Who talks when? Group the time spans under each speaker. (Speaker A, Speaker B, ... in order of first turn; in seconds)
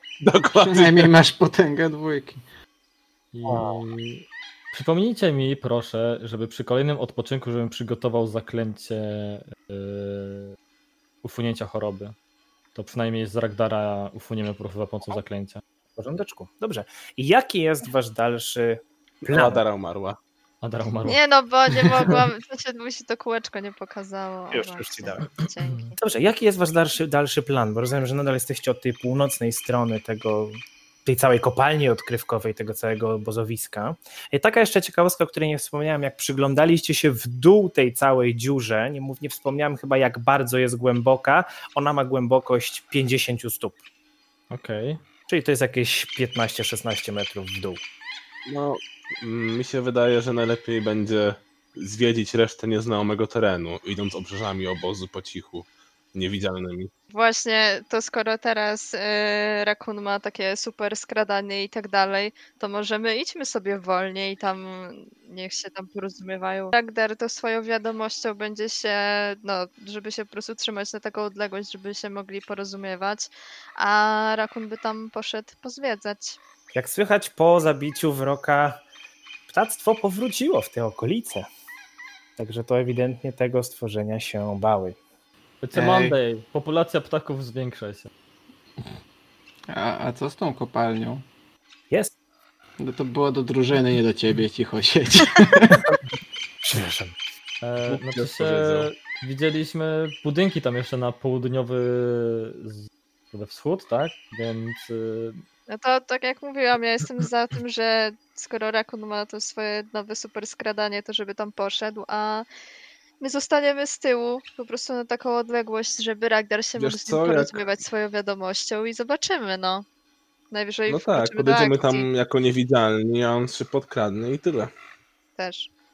Speaker A: 0.2-1.1, 19.3-20.2, 48.5-56.9, 97.9-98.9, 116.8-117.7, 120.9-124.7
Speaker B: 0.5-2.4, 85.7-86.1, 89.7-91.2, 92.8-95.9
Speaker C: 3.3-10.5, 11.2-12.1, 12.7-15.6, 20.6-21.2, 25.6-25.9, 44.5-45.0, 85.6-88.1, 97.6-105.4
Speaker D: 3.5-3.8, 15.9-19.6, 24.5-25.2, 25.9-43.8, 45.3-47.8, 76.7-78.8, 79.5-81.5, 82.4-85.0, 96.6-97.1
Speaker E: 21.1-25.9, 57.1-76.4, 105.7-112.5, 113.2-119.8, 120.5-122.0, 125.4-125.7